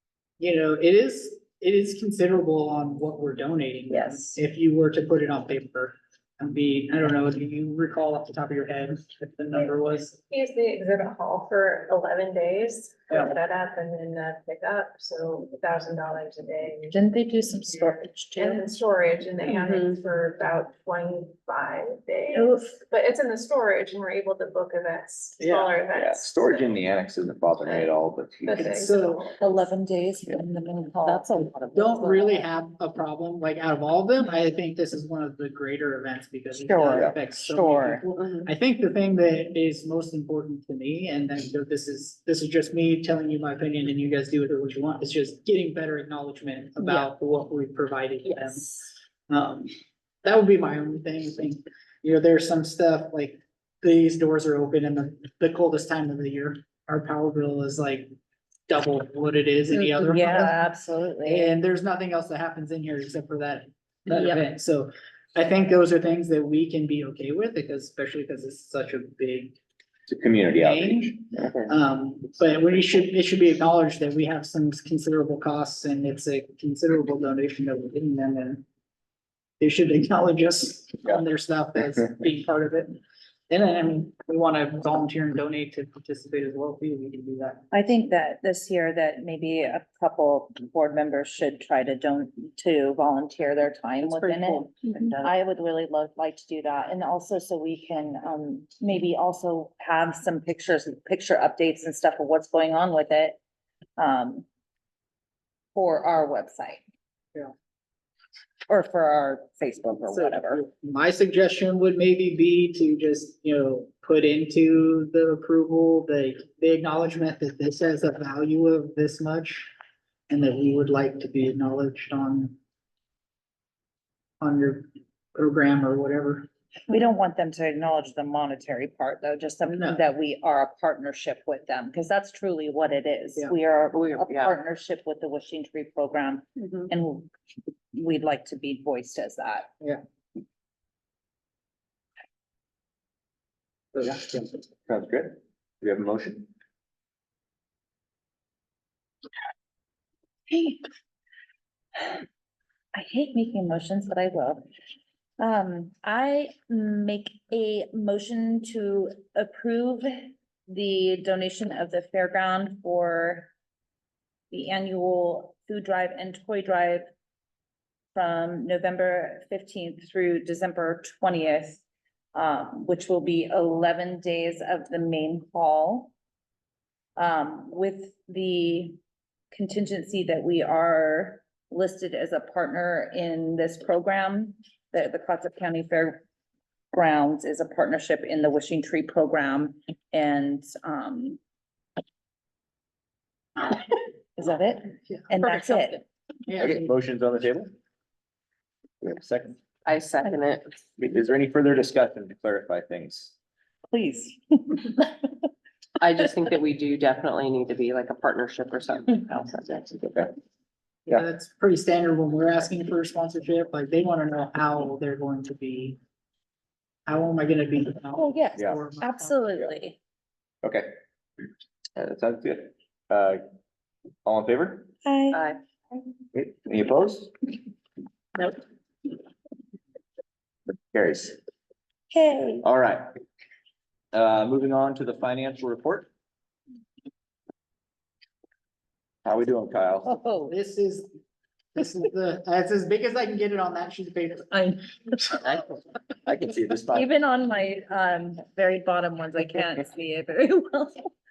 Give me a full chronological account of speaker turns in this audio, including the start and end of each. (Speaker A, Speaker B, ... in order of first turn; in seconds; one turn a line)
Speaker A: 0.4-10.2
Speaker B: 3.9-4.4
Speaker C: 10.3-17.0
Speaker B: 16.9-18.6
Speaker C: 17.8-27.1
Speaker D: 19.6-19.9
Speaker B: 22.3-22.8
Speaker A: 25.4-25.7
Speaker E: 25.9-28.7
Speaker C: 27.6-27.9
Speaker C: 28.4-29.4
Speaker A: 28.6-29.3
Speaker B: 29.4-31.4
Speaker D: 31.1-32.5
Speaker A: 31.4-49.7
Speaker B: 36.5-38.0
Speaker B: 46.8-47.1
Speaker B: 48.2-48.8
Speaker A: 50.2-58.1
Speaker A: 58.7-60.6
Speaker B: 59.7-61.5
Speaker A: 61.2-69.6
Speaker B: 64.1-64.4
Speaker E: 70.1-71.2
Speaker A: 70.5-78.6
Speaker A: 79.6-83.0
Speaker A: 83.5-87.7
Speaker B: 87.7-103.4
Speaker D: 94.0-95.3
Speaker B: 104.0-104.5
Speaker B: 105.8-106.8
Speaker B: 108.7-110.6
Speaker A: 110.1-119.7
Speaker A: 120.3-122.6
Speaker A: 124.4-126.5
Speaker B: 126.9-137.3
Speaker A: 129.7-130.1
Speaker D: 133.9-134.5
Speaker B: 137.9-139.7
Speaker A: 143.9-144.5
Speaker E: 144.9-146.5
Speaker B: 150.5-150.8
Speaker B: 152.9-154.6
Speaker B: 155.4-163.5
Speaker B: 164.5-167.1
Speaker B: 168.2-171.8
Speaker B: 172.3-176.1
Speaker B: 177.2-179.0
Speaker B: 179.5-186.2
Speaker B: 186.9-191.4
Speaker B: 194.4-196.1
Speaker A: 195.1-195.8
Speaker A: 196.5-196.9
Speaker E: 196.6-197.7
Speaker E: 199.0-199.6
Speaker D: 199.8-200.8
Speaker E: 201.0-203.3
Speaker B: 203.9-205.3
Speaker D: 206.0-210.1
Speaker E: 210.1-210.3
Speaker A: 211.1-216.0
Speaker A: 217.1-219.6
Speaker B: 218.1-220.0
Speaker E: 220.6-220.9
Speaker E: 222.0-223.4
Speaker E: 224.3-224.9
Speaker B: 225.1-225.6
Speaker E: 226.3-227.3
Speaker E: 230.9-231.4
Speaker B: 232.1-232.7
Speaker E: 232.6-233.1
Speaker E: 234.1-236.1
Speaker E: 239.2-240.1
Speaker B: 240.1-240.5
Speaker A: 240.5-241.1
Speaker A: 241.8-244.7
Speaker B: 244.5-245.5
Speaker E: 246.3-247.1
Speaker B: 246.9-251.1